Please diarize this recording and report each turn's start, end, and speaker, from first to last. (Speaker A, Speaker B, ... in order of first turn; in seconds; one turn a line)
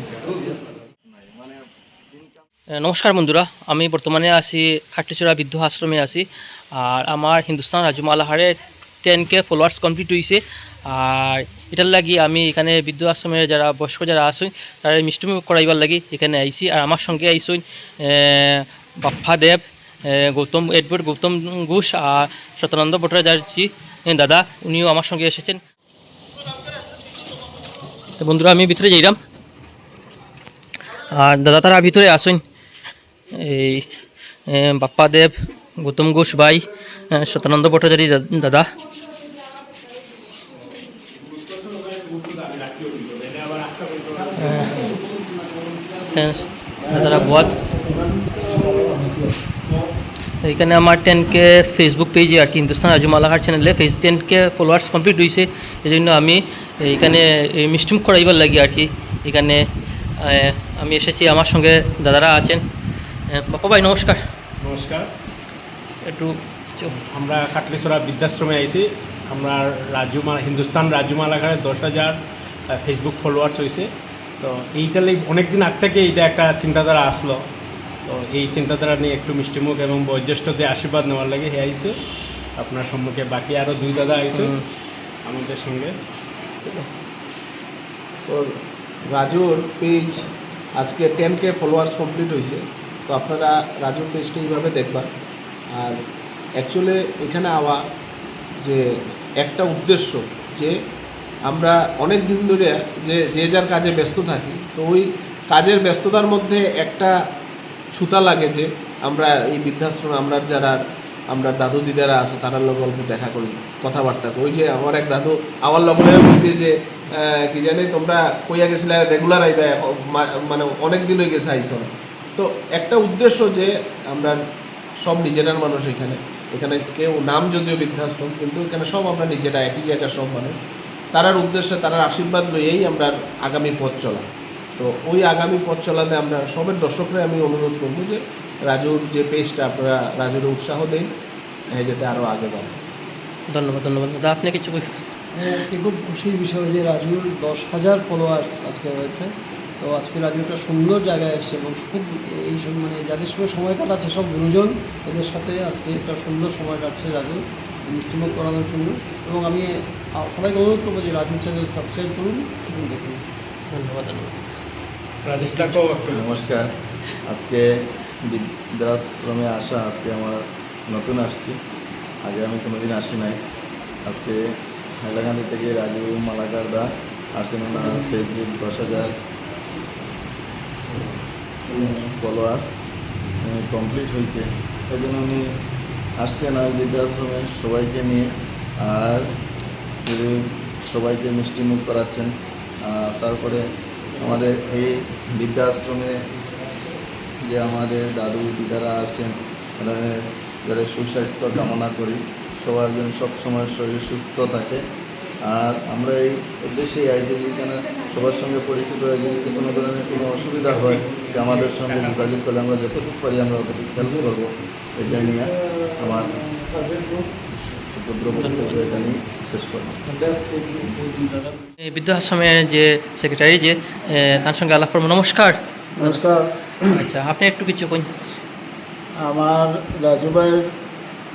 Speaker A: 1.1-2.4
Speaker B: 2.8-25.6
Speaker B: 28.2-29.2
Speaker B: 31.1-32.4
Speaker B: 33.3-33.9
Speaker B: 34.5-38.7
Speaker C: 41.1-46.2
Speaker B: 44.4-44.9
Speaker B: 46.1-47.5
Speaker D: 46.9-49.3
Speaker B: 50.4-59.6
Speaker B: 60.2-62.6
Speaker B: 63.3-64.2
Speaker C: 64.6-65.1
Speaker B: 66.1-66.9
Speaker C: 66.9-72.2
Speaker C: 72.7-73.9
Speaker C: 74.4-77.4
Speaker C: 78.0-82.0
Speaker C: 82.6-84.5
Speaker B: 84.3-84.6
Speaker C: 85.2-85.9
Speaker E: 89.1-95.1
Speaker E: 96.6-97.8
Speaker E: 99.4-100.7
Speaker E: 101.5-107.1
Speaker E: 107.9-110.8
Speaker E: 111.3-124.4
Speaker E: 125.0-130.6
Speaker E: 131.1-134.2
Speaker E: 134.8-141.1
Speaker E: 141.7-142.7
Speaker B: 143.5-144.8
Speaker F: 145.3-149.3
Speaker F: 149.8-163.2
Speaker B: 163.7-164.4
Speaker C: 165.2-166.2
Speaker B: 165.4-165.8
Speaker A: 166.1-166.7
Speaker A: 167.3-167.7
Speaker A: 168.3-171.6
Speaker A: 172.2-173.4
Speaker A: 174.1-174.4
Speaker A: 175.0-179.1
Speaker A: 181.7-182.7
Speaker A: 183.4-185.4
Speaker A: 186.2-188.3
Speaker A: 188.8-189.3
Speaker A: 190.0-192.3
Speaker A: 192.8-193.6
Speaker A: 194.2-196.2
Speaker A: 197.4-204.8
Speaker A: 205.4-216.4
Speaker D: 215.2-217.2
Speaker A: 217.9-220.0
Speaker B: 218.4-218.9
Speaker D: 220.2-221.1
Speaker B: 221.8-226.2
Speaker D: 226.0-226.5
Speaker B: 226.9-228.1
Speaker D: 229.2-230.7